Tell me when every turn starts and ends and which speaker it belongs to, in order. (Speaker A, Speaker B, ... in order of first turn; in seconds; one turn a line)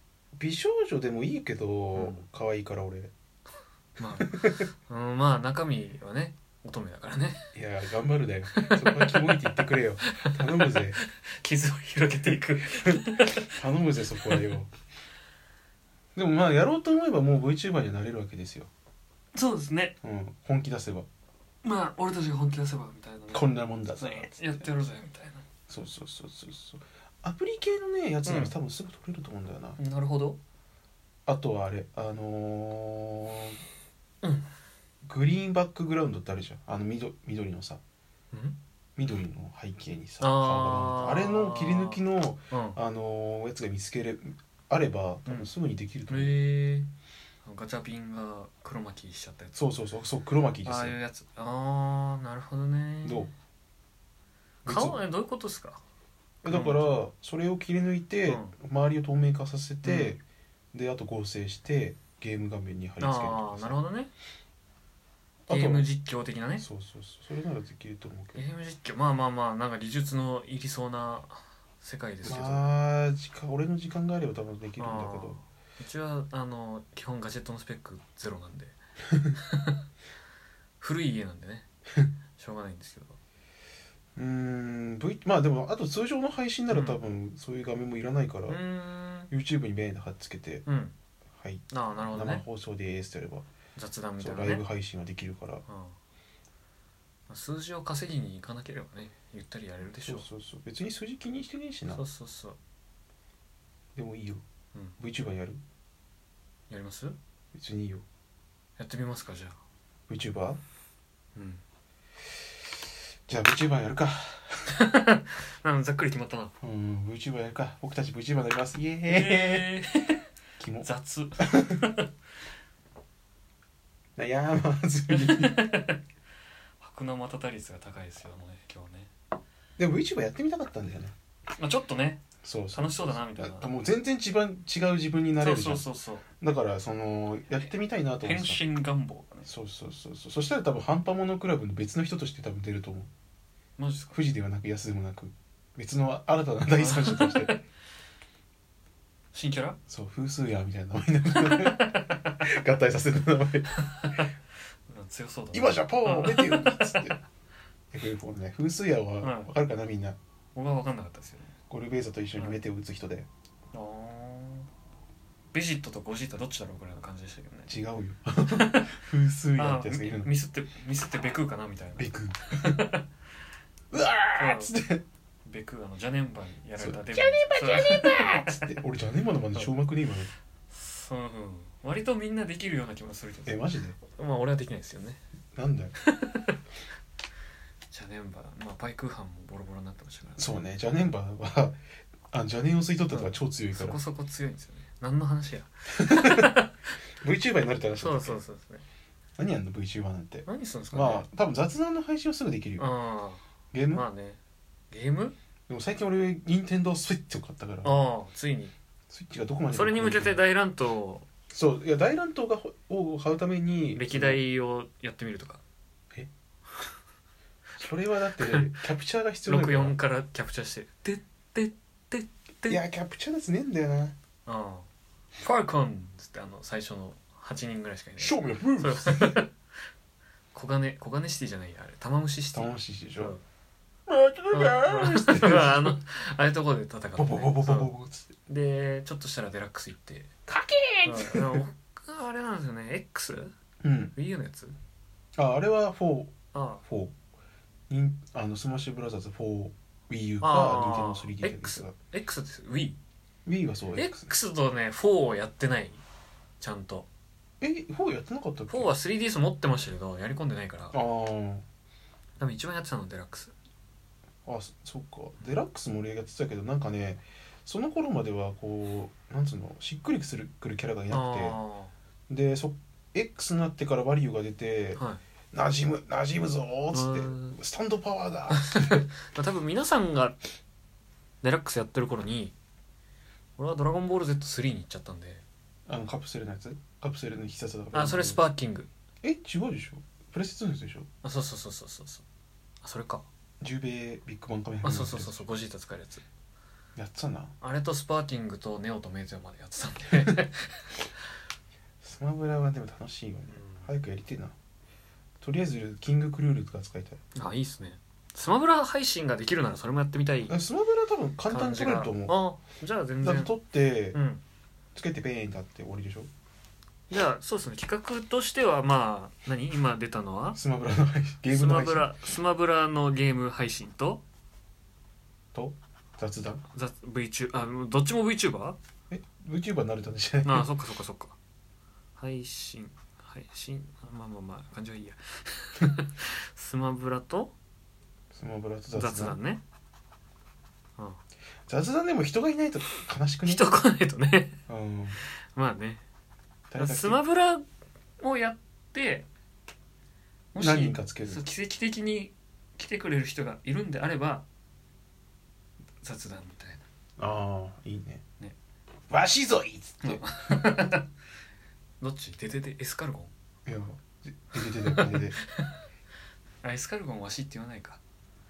Speaker A: 0.4-3.1
Speaker B: 1.9-2.2
Speaker B: 4.0-7.5
Speaker A: 4.2-4.6
Speaker A: 7.5-11.0
Speaker B: 8.6-13.6
Speaker A: 12.7-14.7
Speaker A: 16.1-18.7
Speaker B: 19.4-20.0
Speaker A: 20.0-21.1
Speaker B: 21.6-25.4
Speaker A: 23.3-24.3
Speaker A: 25.7-29.8
Speaker B: 28.2-28.6
Speaker B: 29.8-30.4
Speaker A: 31.3-33.6
Speaker A: 35.0-37.8
Speaker B: 38.3-38.6
Speaker A: 39.0-46.4
Speaker B: 40.2-42.8
Speaker B: 46.1-46.9
Speaker B: 47.4-49.6
Speaker A: 49.6-51.0
Speaker B: 50.6-53.3
Speaker A: 53.0-53.3
Speaker B: 54.6-55.8
Speaker A: 54.7-55.0
Speaker A: 56.4-60.2
Speaker B: 56.5-57.0
Speaker B: 58.2-58.5
Speaker B: 59.8-60.2
Speaker A: 60.7-63.8
Speaker B: 63.0-64.1
Speaker A: 65.5-65.9
Speaker B: 65.5-66.7
Speaker A: 66.6-68.4
Speaker B: 68.3-72.7
Speaker A: 72.2-75.4
Speaker B: 74.8-78.8
Speaker B: 79.4-79.8
Speaker B: 80.8-81.7
Speaker B: 82.4-83.2
Speaker A: 84.2-88.6
Speaker B: 86.7-87.0
Speaker B: 88.5-89.3
Speaker A: 89.3-90.7
Speaker B: 90.7-90.9
Speaker A: 91.4-93.5
Speaker B: 91.7-92.4
Speaker B: 93.8-94.6
Speaker A: 94.2-95.6
Speaker B: 95.7-96.0
Speaker B: 97.3-100.3
Speaker A: 100.0-102.0
Speaker B: 101.9-102.6
Speaker A: 104.0-104.4
Speaker A: 105.0-105.6
Speaker B: 106.7-107.2
Speaker A: 107.5-108.0
Speaker B: 108.8-109.6
Speaker A: 110.1-110.6
Speaker B: 111.4-111.6
Speaker A: 113.3-114.7
Speaker B: 114.7-116.5
Speaker A: 116.6-119.8
Speaker B: 119.1-120.2
Speaker A: 120.6-120.9
Speaker B: 120.8-122.1
Speaker A: 121.4-121.7
Speaker A: 124.2-125.7
Speaker B: 125.1-126.0
Speaker B: 126.8-129.1
Speaker A: 129.8-131.2
Speaker B: 131.6-133.7
Speaker A: 132.4-135.9
Speaker B: 135.4-136.3
Speaker A: 136.4-138.6
Speaker B: 138.2-139.5
Speaker A: 139.5-143.1
Speaker B: 143.8-144.2
Speaker A: 144.1-147.6
Speaker B: 146.8-147.6
Speaker B: 149.3-149.8
Speaker A: 149.9-153.9
Speaker B: 151.4-152.1
Speaker B: 153.9-154.3
Speaker B: 154.9-157.2
Speaker A: 155.5-157.2
Speaker A: 157.9-160.2
Speaker B: 159.2-159.5
Speaker B: 160.6-161.5
Speaker A: 161.7-163.3
Speaker B: 163.7-164.7
Speaker B: 165.5-167.7
Speaker A: 167.7-170.3
Speaker B: 168.5-169.0
Speaker B: 169.6-173.1
Speaker A: 172.0-172.8
Speaker A: 173.9-175.0
Speaker B: 174.3-174.7
Speaker B: 175.4-178.8
Speaker A: 176.8-180.3
Speaker B: 180.7-185.2
Speaker A: 183.4-184.0
Speaker A: 185.6-185.9
Speaker B: 186.0-186.6
Speaker B: 187.9-190.6
Speaker A: 190.4-191.8
Speaker A: 192.3-194.0
Speaker B: 193.1-196.7
Speaker A: 196.0-196.5
Speaker A: 197.2-198.4
Speaker B: 197.9-198.8
Speaker A: 199.4-202.9
Speaker B: 200.5-201.3
Speaker B: 202.8-204.4
Speaker A: 203.7-204.1
Speaker B: 204.9-205.3
Speaker A: 205.7-208.1
Speaker B: 207.8-208.7
Speaker A: 209.1-210.4
Speaker B: 209.7-211.3
Speaker A: 211.5-214.4
Speaker B: 213.9-215.6
Speaker A: 217.8-220.0
Speaker B: 218.4-218.8
Speaker B: 219.5-222.8
Speaker A: 222.7-224.2
Speaker B: 224.5-224.9
Speaker B: 225.4-229.5
Speaker A: 228.2-229.4
Speaker B: 230.5-233.4
Speaker A: 232.5-233.3
Speaker A: 234.1-236.0
Speaker B: 234.5-237.9
Speaker A: 237.2-238.3
Speaker B: 238.5-240.3
Speaker A: 240.5-241.6
Speaker B: 241.1-243.5
Speaker A: 243.8-244.1
Speaker B: 244.1-244.7
Speaker A: 245.4-246.3
Speaker B: 246.5-246.8
Speaker A: 246.8-247.1
Speaker A: 247.9-251.9
Speaker B: 250.4-253.0
Speaker A: 253.5-254.3
Speaker B: 254.0-256.0
Speaker B: 256.6-257.1
Speaker A: 257.6-258.9
Speaker B: 258.7-261.0
Speaker A: 260.9-261.6
Speaker B: 262.4-263.5
Speaker A: 264.5-271.6
Speaker B: 271.1-271.9
Speaker A: 272.3-275.0
Speaker B: 275.0-275.2
Speaker A: 275.5-279.1
Speaker B: 276.9-277.6
Speaker B: 278.6-280.4
Speaker B: 281.4-282.5
Speaker B: 283.6-285.4
Speaker A: 285.9-288.4
Speaker B: 287.9-288.9
Speaker A: 289.2-291.1
Speaker B: 291.2-292.2
Speaker B: 292.8-293.3
Speaker A: 293.6-295.4
Speaker B: 294.8-296.2
Speaker A: 297.0-297.5
Speaker B: 297.6-301.1
Speaker A: 302.0-304.5
Speaker B: 303.5-303.9
Speaker A: 305.4-307.2
Speaker B: 307.4-310.6
Speaker A: 310.5-312.4
Speaker B: 311.5-313.5
Speaker A: 313.2-314.2
Speaker B: 314.1-314.4
Speaker A: 314.9-316.3
Speaker B: 317.1-320.6
Speaker A: 320.5-322.2
Speaker B: 321.5-324.2
Speaker A: 325.5-326.6
Speaker B: 326.7-328.8
Speaker A: 329.1-330.7
Speaker B: 330.4-331.4
Speaker B: 332.2-337.5
Speaker A: 338.3-339.4
Speaker B: 338.9-339.6
Speaker A: 341.7-343.7
Speaker B: 343.4-344.6
Speaker A: 344.7-345.2
Speaker B: 345.5-346.0
Speaker A: 346.7-347.2
Speaker B: 346.8-347.6
Speaker B: 348.2-349.3
Speaker B: 350.5-354.4
Speaker A: 350.6-351.4
Speaker B: 356.0-356.8
Speaker A: 357.2-358.2
Speaker A: 359.1-361.0
Speaker B: 360.0-361.0
Speaker B: 362.0-363.3
Speaker A: 363.7-365.4
Speaker B: 364.9-365.8
Speaker B: 366.6-368.0